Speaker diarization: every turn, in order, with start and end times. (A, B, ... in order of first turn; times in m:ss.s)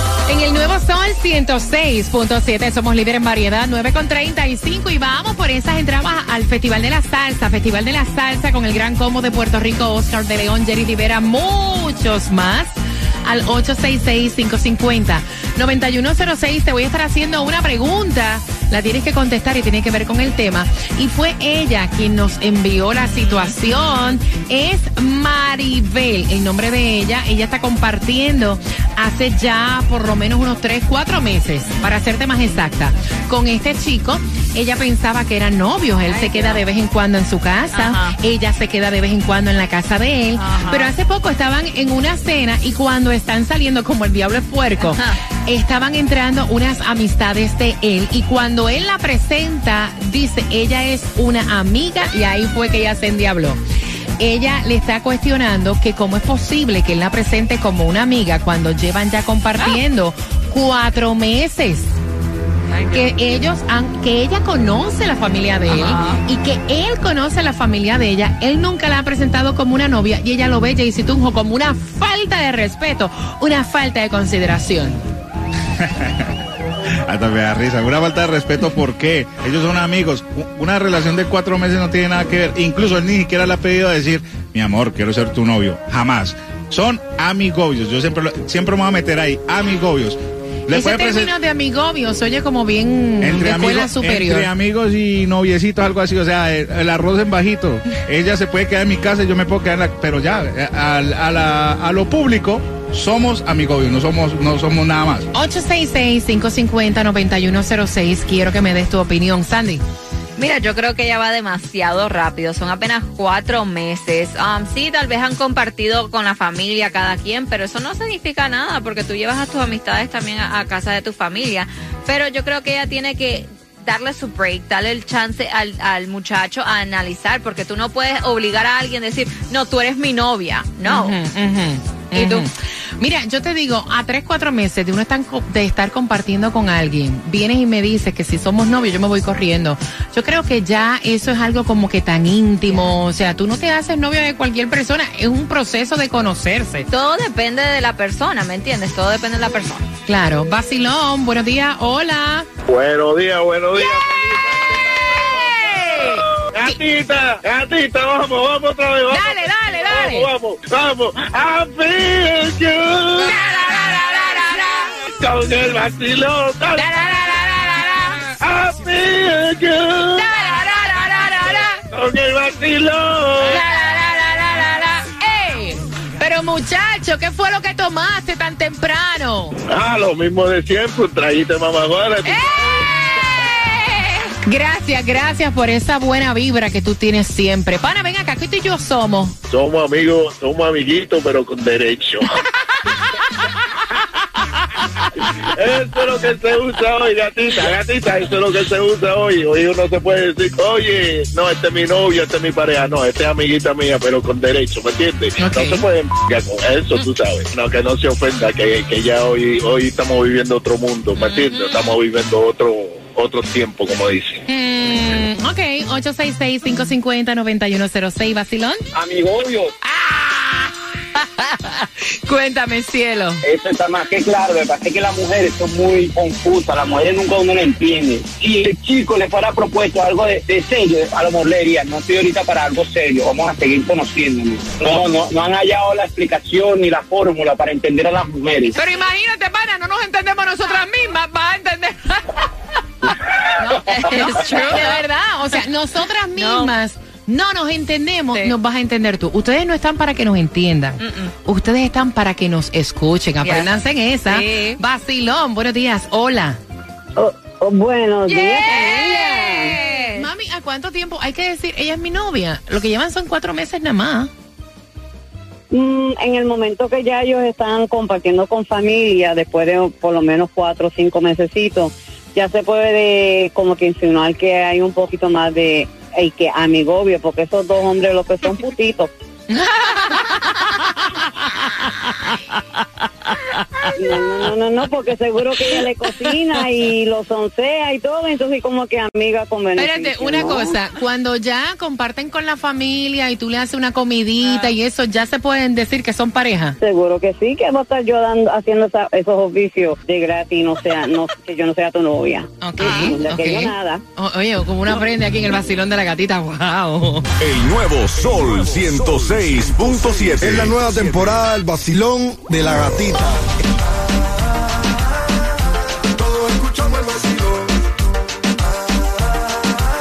0:00.3-0:53.6 A
0:36.0-0:36.6 B
0:37.7-0:38.2 B
0:40.4-0:40.9 B
0:44.8-0:45.2 B
0:54.2-1:01.9 A
1:02.7-1:03.1 B
1:02.9-1:15.0 A
1:05.7-1:06.2 B
1:15.8-1:16.3 C
1:17.1-1:31.3 C
1:30.7-1:34.5 A
1:33.2-1:45.3 C
1:45.3-1:49.8 A
1:50.4-2:11.2 B
2:10.8-2:26.9 A
2:12.2-2:12.5 B
2:22.7-2:22.9 B
2:26.9-2:29.9 B
2:30.1-2:32.5 A
2:32.7-2:35.2 D
2:35.1-2:36.8 A
2:36.1-2:39.4 D
2:39.1-2:40.3 A
2:39.9-2:43.3 D
2:43.2-2:44.8 A
2:45.2-2:46.9 D
2:46.8-2:48.3 A
2:48.4-2:50.2 D
2:50.1-2:51.8 A
2:51.9-2:53.6 D
2:53.4-2:59.6 A
2:59.7-3:02.9 D
3:02.2-3:03.8 A
3:04.4-3:09.4 A
3:09.5-3:12.2 D
3:15.6-3:34.4 D
3:25.4-3:25.8 A
3:31.2-3:31.9 B
3:34.5-3:38.8 A
3:38.9-3:39.7 E
3:39.8-3:43.4 A
3:43.4-3:58.7 E
3:58.7-4:02.5 A
4:03.6-4:16.6 A
4:03.9-4:05.0 B
4:06.4-4:06.7 B
4:11.0-4:11.3 B
4:13.4-4:13.7 B
4:14.3-4:14.8 B
4:17.2-4:19.7 F
4:18.3-4:24.3 A
4:18.7-4:20.3 B
4:25.7-4:39.1 F
4:39.5-4:40.6 A
4:44.0-4:50.8 F
4:49.8-4:56.8 A
4:56.8-5:04.0 F
5:02.6-5:07.3 A
5:07.4-5:11.4 G
5:10.4-5:13.5 H